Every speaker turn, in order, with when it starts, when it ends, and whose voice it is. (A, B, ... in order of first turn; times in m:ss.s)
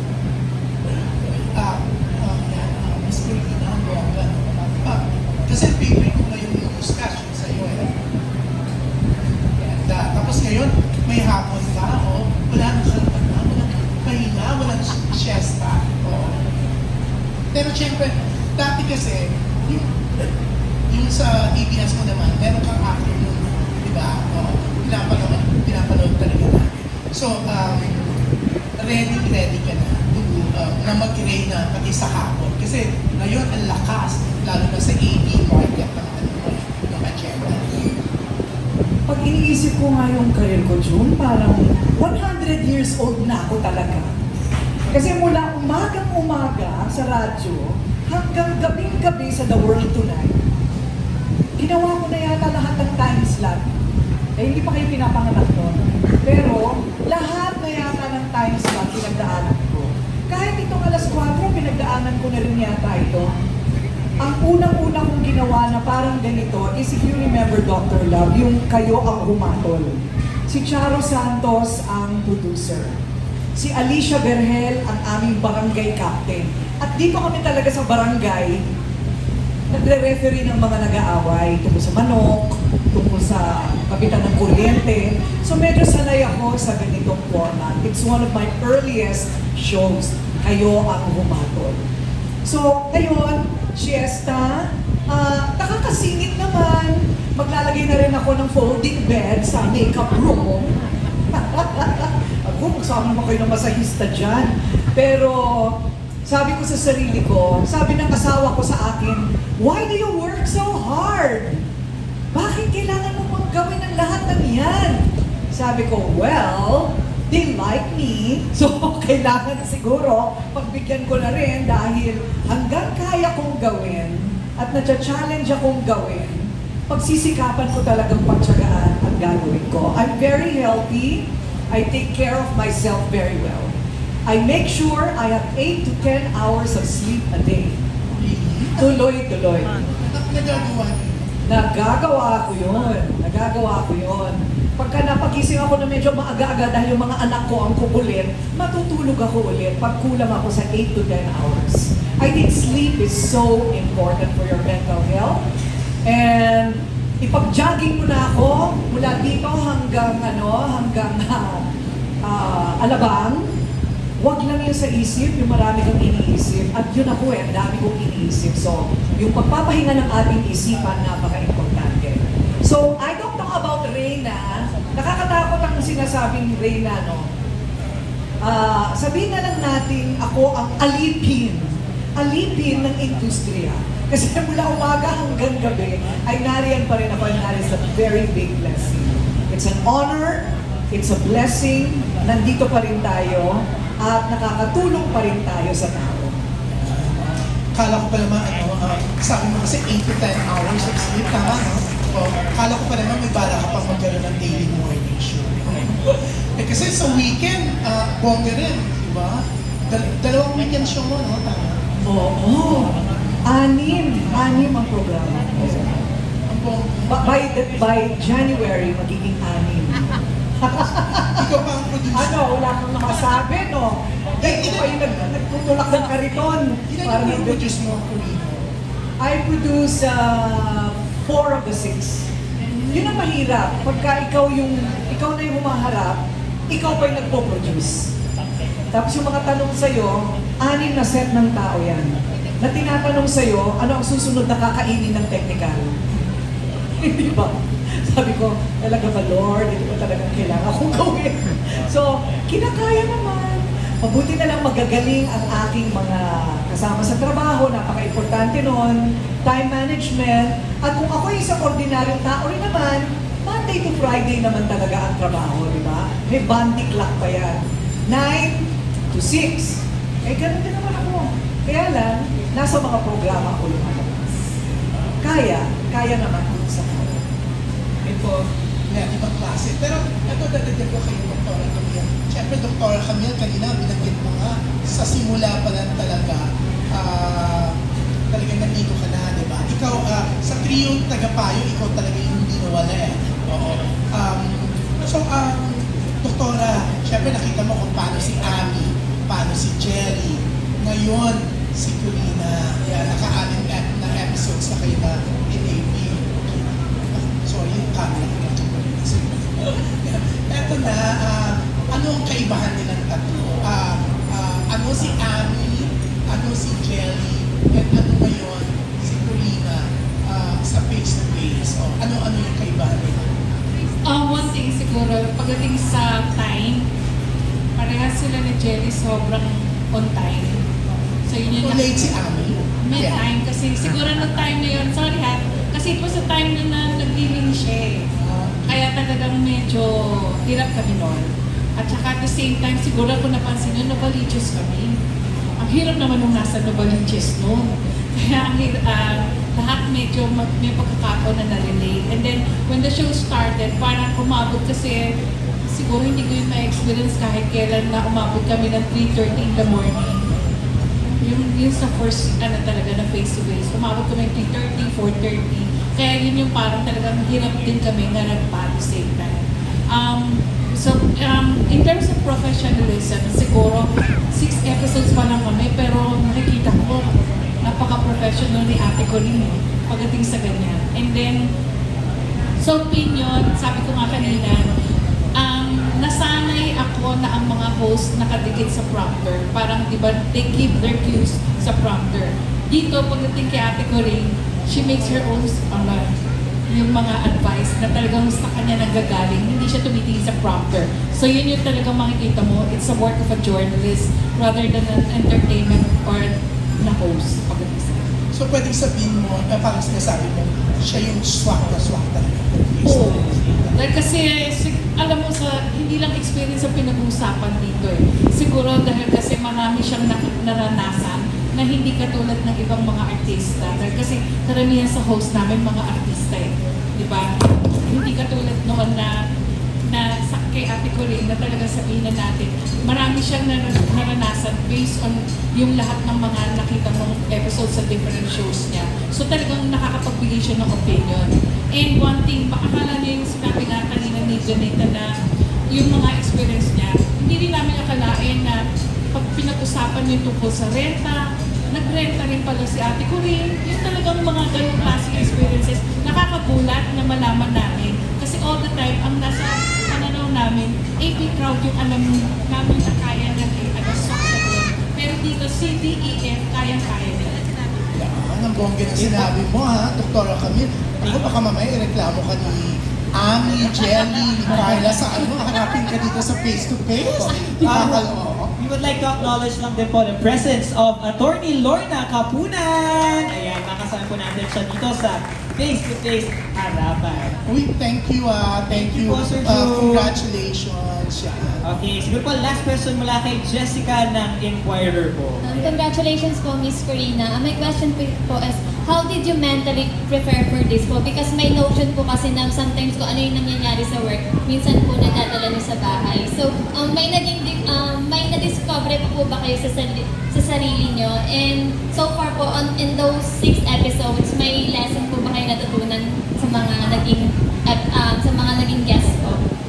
0:00.9-0:08.0 A
0:09.6-0:16.5 A
0:17.5-0:20.3 A
0:20.9-0:28.2 A
0:28.8-0:38.0 A
0:39.1-0:44.1 B
0:44.9-0:50.4 B
0:51.6-0:53.8 B
0:54.4-1:03.3 B
1:04.2-1:13.0 B
1:13.6-1:18.6 B
1:19.7-1:31.8 B
1:32.4-1:40.7 B
1:41.3-1:51.7 B
1:52.3-2:13.7 B
2:14.3-2:17.8 B
2:18.1-2:18.8 A
2:18.8-2:19.8 B
2:19.9-2:21.3 A
2:21.5-2:35.4 B
2:36.1-2:41.7 B
2:42.2-2:43.5 B
2:44.2-2:57.3 B
2:58.4-3:16.4 B
3:16.8-3:31.8 A
3:32.1-3:32.9 B
3:33.5-3:36.0 B
3:36.5-3:37.3 A
3:37.1-3:41.5 B
3:41.2-3:42.4 A
3:42.1-3:47.6 B
3:44.4-3:44.9 A
3:46.9-3:48.7 A
3:49.2-3:52.3 B
3:52.9-3:56.2 B
3:56.7-3:58.1 B
3:58.9-4:06.0 B
4:07.0-4:34.5 B
4:35.2-4:37.2 B
4:38.1-4:38.4 C
4:38.9-4:47.8 A
4:48.3-5:23.4 A
5:24.0-5:26.9 D
5:27.8-5:30.6 D
5:31.3-5:32.2 D
5:31.6-5:33.2 A
5:32.8-5:38.1 D
5:38.2-5:38.8 A
5:38.7-5:45.0 D
5:45.6-5:55.1 D
5:55.7-6:00.3 D
6:01.2-6:17.1 D
6:17.6-6:21.4 D
6:22.6-6:24.7 D
6:25.4-6:36.0 D
6:36.7-6:48.1 D
6:48.3-6:53.8 A
6:52.8-7:09.2 D
7:09.9-7:25.1 D
7:25.7-7:28.6 D
7:29.1-7:47.4 D
7:47.9-7:58.5 A
7:49.0-7:49.3 C
7:51.0-7:51.4 C
7:54.4-7:54.9 C
7:57.1-8:07.4 C
8:07.5-8:11.6 A
8:08.7-8:10.2 C
8:11.6-8:15.8 C
8:15.6-8:39.4 E